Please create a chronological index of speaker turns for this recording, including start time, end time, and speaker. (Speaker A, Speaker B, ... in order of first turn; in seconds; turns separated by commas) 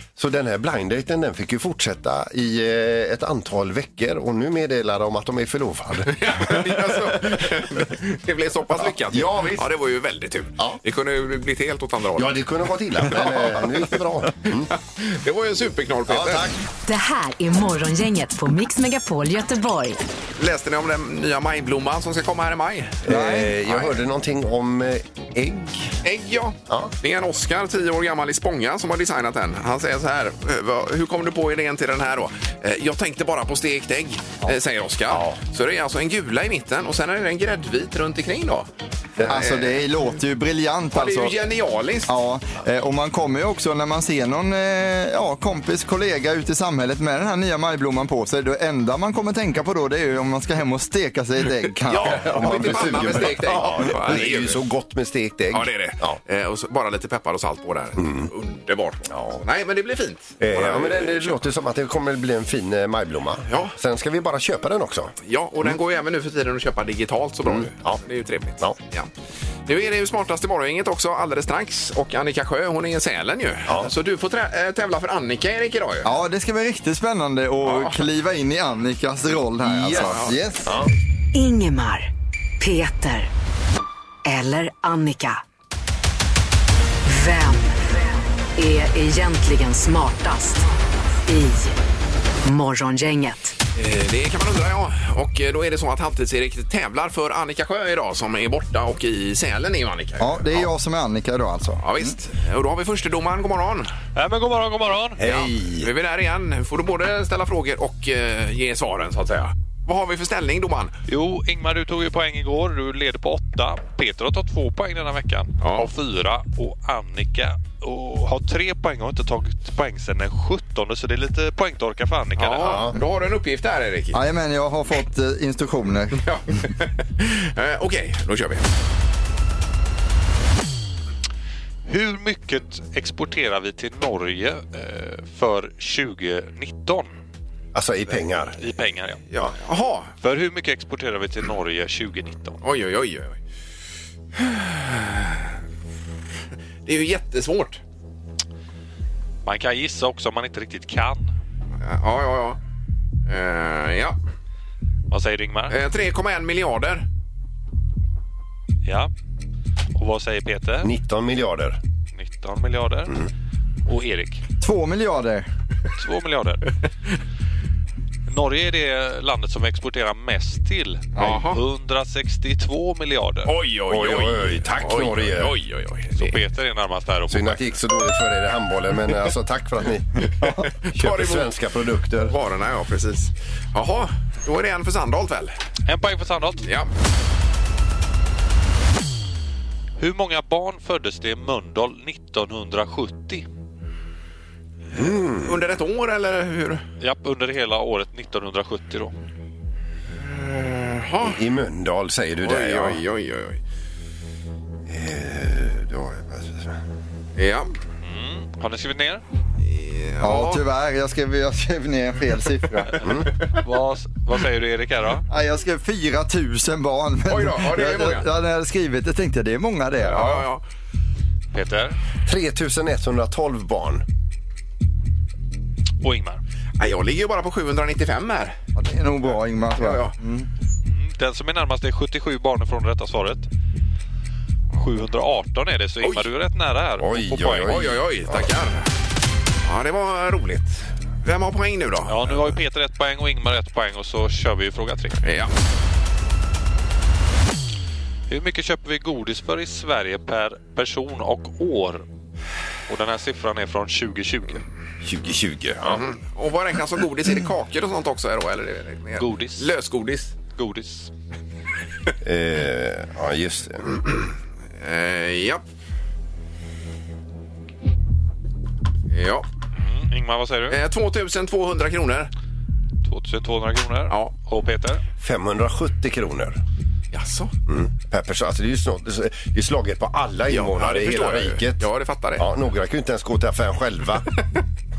Speaker A: 0.2-7.2, Speaker B: 6.1-12.4, Speaker A: 8.8-9.7, Speaker A: 12.2-14.7, Speaker B: 13.1-13.8, Speaker B: 14.8-16.5, Speaker A: 16.1-16.5, Speaker C: 16.9-20.0, Speaker B: 20.4-23.0, Speaker A: 23.0-25.9, Speaker D: 23.1-23.5, Speaker B: 26.0-38.7, Speaker A: 35.1-35.4, Speaker A: 39.2-39.7, Speaker D: 39.3-41.3, Speaker B: 40.9-42.1, Speaker D: 42.1-53.3, Speaker B: 51.9-54.6, Speaker A: 52.0-56.2, Speaker B: 55.5-61.4, Speaker A: 58.0-58.3, Speaker A: 59.1-59.4, Speaker A: 60.4-65.1, Speaker B: 63.5-63.7, Speaker B: 65.2-69.1, Speaker A: 67.5-68.0, Speaker B: 69.7-76.1, Speaker D: 76.0-80.7, Speaker B: 77.6-78.0, Speaker A: 79.6-80.9, Speaker B: 79.9-80.3, Speaker C: 81.3-83.3, Speaker C: 84.2-85.4, Speaker C: 87.0-88.0, Speaker C: 88.5-90.7, Speaker C: 91.2-91.8, Speaker C: 92.4-93.5, Speaker B: 93.7-100.7, Speaker D: 100.2-102.1, Speaker B: 101.8-103.9, Speaker E: 104.1-105.2, Speaker A: 105.2-105.9, Speaker B: 105.2-111.0, Speaker E: 111.1-122.8, Speaker B: 115.6-115.9, Speaker B: 122.4-124.2, Speaker A: 122.6-123.0, Speaker D: 124.1-126.2, Speaker B: 126.2-128.7, Speaker E: 131.8-137.1, Speaker A: 137.7-138.6, Speaker E: 138.6-139.3, Speaker B: 139.3-140.1, Speaker E: 140.2-142.6, Speaker B: 142.6-143.4, Speaker B: 144.3-145.5, Speaker B: 146.8-147.8, Speaker E: 149.4-151.3, Speaker B: 151.8-152.6, Speaker B: 153.3-154.2, Speaker E: 155.1-155.8, Speaker B: 155.7-157.0, Speaker E: 158.8-159.1, Speaker E: 159.9-160.9, Speaker A: 160.8-161.8, Speaker E: 162.1-163.2, Speaker E: 163.8-164.4, Speaker D: 164.6-165.5, Speaker E: 165.9-166.7, Speaker E: 168.3-173.5, Speaker B: 171.2-171.6, Speaker B: 173.4-176.4, Speaker A: 173.9-175.5, Speaker E: 176.1-177.6, Speaker A: 177.3-180.2, Speaker B: 180.8-181.5, Speaker A: 180.9-182.3, Speaker B: 182.3-185.6, Speaker E: 185.8-186.7, Speaker B: 186.6-186.9, Speaker E: 190.0-193.4, Speaker A: 194.9-195.6, Speaker B: 195.0-196.8, Speaker E: 197.0-199.1, Speaker B: 200.1-201.4, Speaker A: 201.2-203.0, Speaker B: 202.4-203.6, Speaker A: 204.9-206.8, Speaker B: 207.3-207.7, Speaker E: 208.0-209.2, Speaker B: 209.6-210.6, Speaker D: 210.2-213.0, Speaker A: 213.0-213.3, Speaker E: 213.5-215.2, Speaker D: 215.3-220.4, Speaker B: 217.3-218.2, Speaker B: 220.1-220.6, Speaker E: 221.5-222.0, Speaker A: 222.2-224.0, Speaker E: 226.0-226.4, Speaker B: 226.8-228.6, Speaker D: 228.8-230.5, Speaker B: 229.8-230.1, Speaker E: 230.9-233.5, Speaker E: 234.8-237.8, Speaker A: 237.0-238.5, Speaker B: 237.6-238.9, Speaker B: 239.6-242.5, Speaker E: 242.1-245.2, Speaker B: 245.2-245.5, Speaker E: 248.3-252.1, Speaker E: 252.9-254.7, Speaker A: 255.0-256.0, Speaker B: 255.8-260.4, Speaker E: 259.2-259.7, Speaker E: 260.5-261.1, Speaker A: 262.2-264.1, Speaker B: 264.8-265.6, Speaker B: 269.1-269.4, Speaker E: 269.8-270.8, Speaker B: 270.7-272.3, Speaker E: 273.0-275.0, Speaker A: 275.2-276.6, Speaker B: 277.1-277.5, Speaker A: 277.7-281.8, Speaker B: 280.5-282.5, Speaker A: 282.4-284.2